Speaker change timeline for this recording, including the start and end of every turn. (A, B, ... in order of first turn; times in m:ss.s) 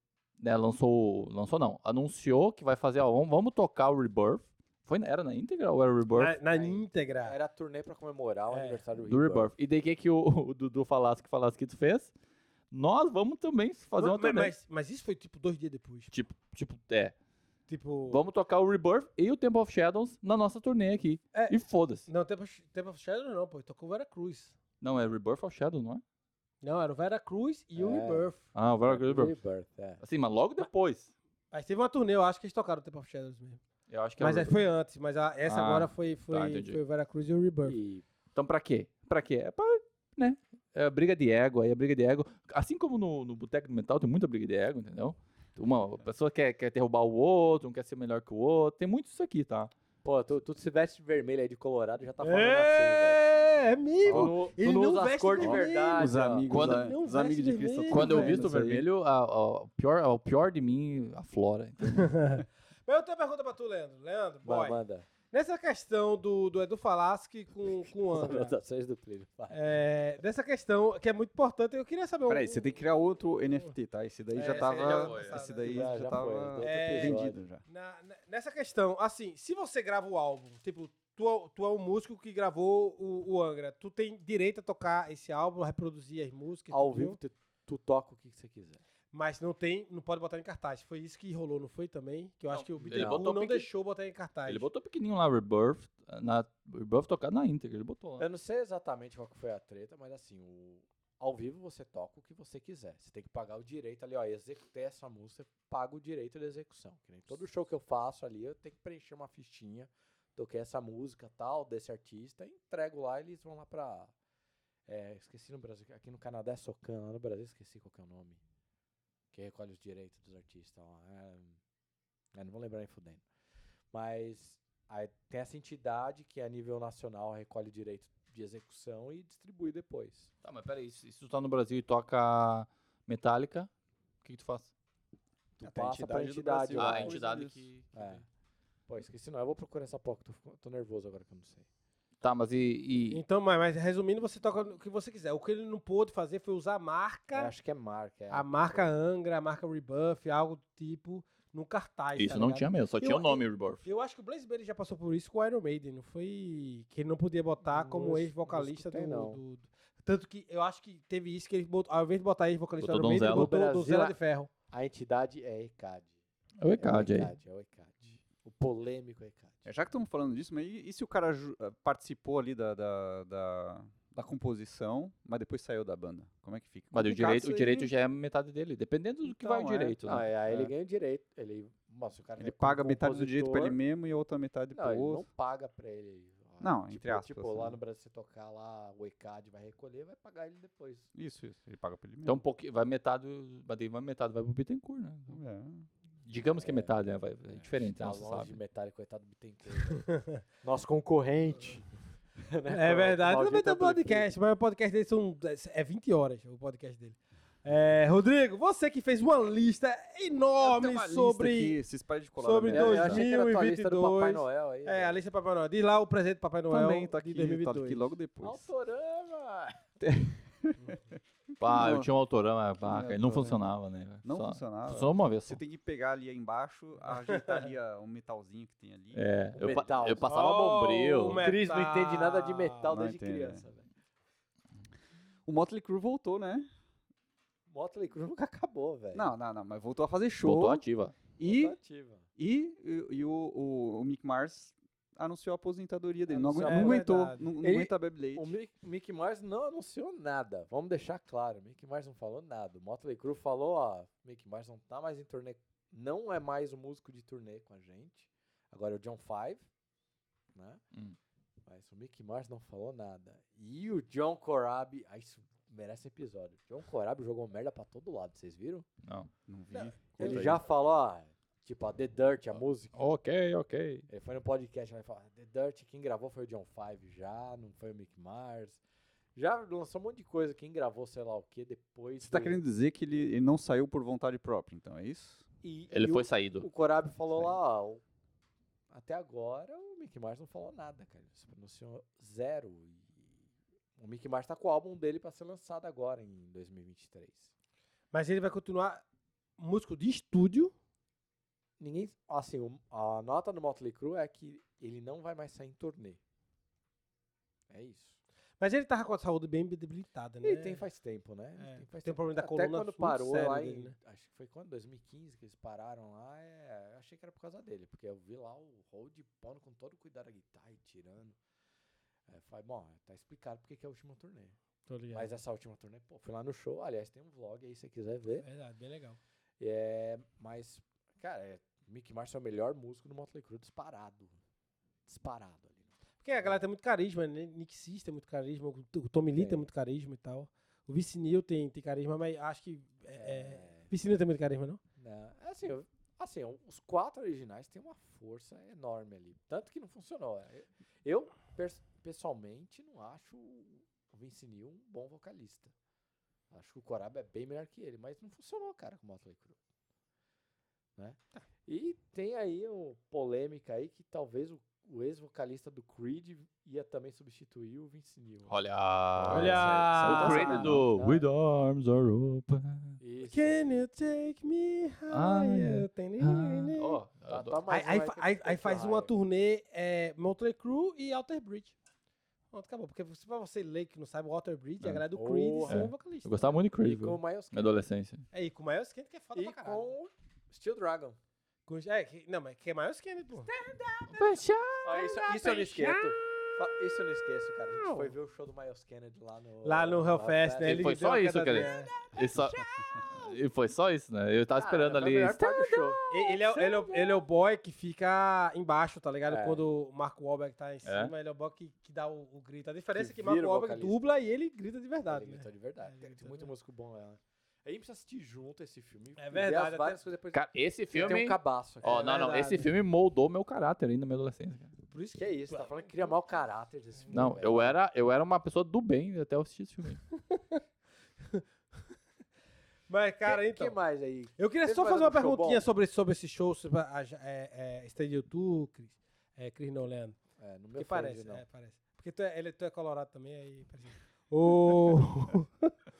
0:00.4-0:06.4 A
0:06.2-0:07.4 B
0:06.5-0:09.5 C
0:08.5-0:08.8 B
0:09.1-0:12.1 A
0:12.7-0:14.5 A
0:14.0-0:16.1 B
0:16.1-0:17.1 A
0:17.7-0:18.2 B
0:18.1-0:22.1 A
0:21.3-0:24.6 B
0:24.8-0:26.0 A
0:26.6-0:28.4 B
0:27.8-0:28.3 C
0:28.5-0:29.3 A
0:28.8-0:30.0 C
0:30.0-0:31.1 A
0:31.5-0:33.6 B
0:33.9-0:34.6 A
0:34.2-0:37.8 B
0:35.4-0:36.8 A
0:37.6-0:38.0 C
0:38.4-0:49.7 A
0:50.0-0:53.2 C
0:52.2-0:58.4 B
0:54.0-0:56.6 C
0:54.0-0:54.4 D
0:55.4-0:58.9 D
0:56.5-0:56.9 A
0:57.9-1:02.3 A
1:01.9-1:08.5 B
1:04.4-1:05.1 C
1:07.7-1:09.6 C
1:09.5-1:12.7 B
1:12.3-1:17.6 D
1:14.3-1:15.9 B
1:14.4-1:15.4 A
1:15.6-1:17.4 C
1:16.6-1:27.2 B
1:26.7-1:28.8 C
1:29.1-1:34.7 B
1:32.5-1:33.7 A
1:32.8-1:33.2 C
1:34.4-1:38.2 A
1:38.2-1:54.1 C
1:54.9-1:58.4 C
1:59.3-2:01.6 C
2:02.3-2:03.2 C
2:03.9-2:10.3 C
2:10.4-2:13.7 A
2:14.2-2:14.7 A
2:15.6-2:17.2 C
2:15.6-2:17.6 D
2:16.8-2:18.2 A
2:17.9-2:18.2 C
2:18.9-2:21.6 C
2:22.2-2:23.2 A
2:23.1-2:27.5 B
2:27.3-2:28.9 C
2:28.3-2:44.5 B
2:32.2-2:33.8 A
2:37.6-2:39.4 C
2:42.8-2:43.5 A
2:43.3-2:44.2 C
2:44.7-2:46.1 C
2:46.6-2:47.3 A
2:46.7-2:49.7 C
2:49.6-2:57.9 D
2:56.9-3:00.2 A
2:59.2-3:00.7 D
3:00.0-3:03.8 C
3:02.4-3:05.2 D
3:04.7-3:11.1 C
3:06.6-3:07.8 D
3:11.1-3:12.4 D
3:12.2-3:15.4 A
3:15.3-3:15.9 D
3:16.2-3:18.6 A
3:16.6-3:17.0 C
3:17.5-3:24.3 C
3:19.9-3:20.3 B
3:22.7-3:31.8 B
3:30.6-3:33.2 D
3:32.4-3:38.1 B
3:32.7-3:35.2 C
3:36.7-3:38.7 D
3:38.4-3:39.8 C
3:40.0-3:41.0 D
3:41.6-3:45.6 A
3:41.6-3:42.1 D
3:42.8-3:43.6 D
3:44.2-3:49.2 D
3:49.1-3:51.4 A
3:49.5-3:50.4 C
3:50.2-3:52.8 B
3:51.2-3:53.9 C
3:52.9-3:53.6 D
3:55.4-3:56.7 D
3:57.7-3:59.3 C
3:59.1-4:00.8 D
4:00.4-4:01.1 A
4:01.4-4:01.8 D
4:01.4-4:02.2 C
4:02.4-4:08.5 D
4:06.3-4:19.6 C
4:06.4-4:07.5 B
4:20.5-4:20.8 C
4:21.6-4:28.9 C
4:29.0-4:29.3 A
4:29.5-4:30.6 D
4:30.2-4:33.0 C
4:30.2-4:30.5 A
4:32.9-4:34.1 A
4:34.1-4:38.8 C
4:39.4-4:42.6 C
4:42.2-4:45.4 D
4:45.6-4:48.0 C
4:45.9-4:46.7 A
4:48.9-4:53.4 C
4:54.0-4:57.5 C
4:58.1-4:59.0 B
4:59.6-5:00.7 B
5:01.8-5:06.2 C
5:07.7-5:08.2 C
5:08.6-5:10.8 B
5:10.4-5:21.4 C
5:11.6-5:13.9 B
5:22.3-5:24.6 C
5:24.9-5:25.3 B
5:25.1-5:28.5 C
5:28.4-5:29.2 B
5:29.6-5:34.4 C
5:35.0-5:35.8 C
5:36.2-5:44.8 B
5:39.4-5:39.7 C
5:43.1-5:43.9 C
5:45.0-5:55.7 C
5:56.5-5:59.6 C
6:01.0-6:08.5 C
6:08.5-6:13.0 A
6:09.2-6:10.9 D
6:09.3-6:10.7 B
6:10.3-6:11.2 C
6:13.0-6:13.6 C
6:13.2-6:17.0 B
6:15.1-6:17.6 A
6:17.3-6:19.1 C
6:17.7-6:21.7 B
6:22.5-6:26.6 B
6:25.1-6:25.9 C
6:25.7-6:28.2 A
6:26.8-6:27.8 C
6:28.3-6:29.9 B
6:29.4-6:31.2 C
6:31.7-6:33.5 B
6:33.4-6:34.2 C
6:34.1-6:34.9 A
6:34.8-6:43.0 C
6:34.8-6:36.1 B
6:37.7-6:38.1 B
6:39.6-6:41.9 B
6:40.6-6:46.0 A
6:44.6-6:47.2 C
6:46.1-6:56.5 B
6:49.3-6:49.6 C
6:50.8-6:51.1 A
6:52.9-6:53.9 C
6:55.1-7:02.2 C
6:59.2-7:00.0 B
7:00.3-7:04.7 A
7:01.8-7:02.7 B
7:04.9-7:06.0 B
7:05.1-7:07.8 C
7:07.1-7:10.0 A
7:10.3-7:10.6 B
7:12.9-7:13.8 B
7:13.2-7:15.6 C
7:14.4-7:20.2 B
7:20.4-7:21.4 C
7:20.8-7:25.7 B